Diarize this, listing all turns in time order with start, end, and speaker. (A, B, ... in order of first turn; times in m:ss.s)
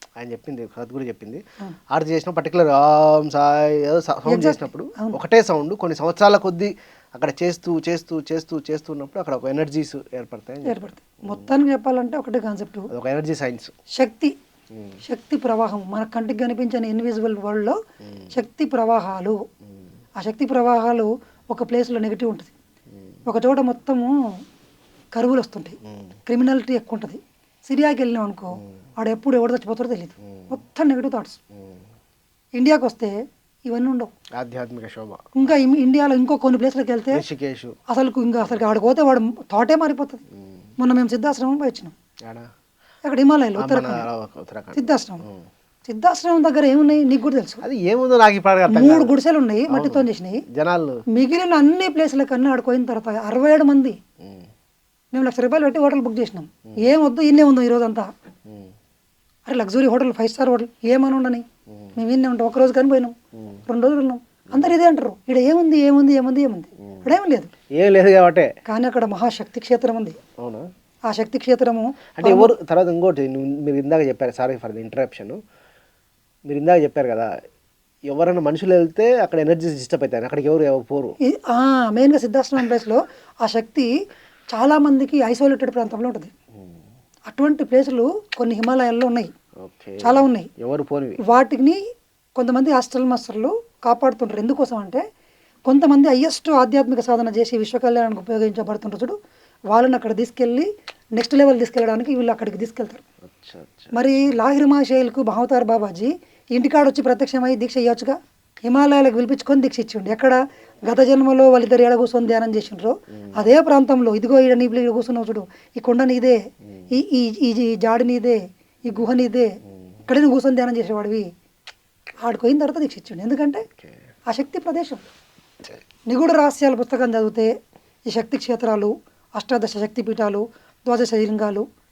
0:00.2-0:10.8 A
0:04.3-0:05.2 B
0:10.6-0:12.9 B
0:12.9-0:13.7 A
0:14.0-0:14.3 B
0:15.0-0:17.8 B
0:18.3-0:19.4 B
0:20.2-0:22.5 B
0:23.2-0:24.3 B
0:25.1-0:31.4 B
0:32.6-0:34.1 B
0:34.4-0:35.5 A
0:35.3-0:37.2 B
0:37.1-0:37.8 A
0:37.9-0:40.2 B
0:40.4-0:40.7 A
0:40.8-0:41.9 B
0:43.0-0:44.1 B
0:43.6-0:45.5 A
0:44.7-0:45.2 B
0:45.9-0:47.6 B
0:47.6-0:49.1 A
0:48.7-0:50.4 B
0:49.7-0:51.0 A
0:51.1-0:54.0 B
0:54.2-0:54.5 A
0:55.1-0:58.1 B
0:58.5-0:58.7 A
0:59.5-1:01.4 B
1:02.0-1:03.1 B
1:03.7-1:07.5 B
1:07.7-1:08.5 A
1:08.6-1:10.2 B
1:10.4-1:10.7 A
1:11.1-1:12.5 B
1:12.2-1:15.4 A
1:16.5-1:17.3 A
1:18.1-1:21.2 A
1:21.2-1:23.9 B
1:24.5-1:26.3 B
1:27.3-1:29.3 B
1:29.6-1:31.2 A
1:30.0-1:30.5 B
1:31.2-1:31.8 B
1:32.4-1:35.0 B
1:35.7-1:39.2 B
1:39.7-1:43.0 B
1:43.2-1:43.9 A
1:43.9-1:56.4 B
1:56.9-1:59.5 B
2:00.1-2:01.3 B
2:02.2-2:03.6 B
2:04.3-2:05.0 B
2:06.1-2:07.5 B
2:08.1-2:11.6 B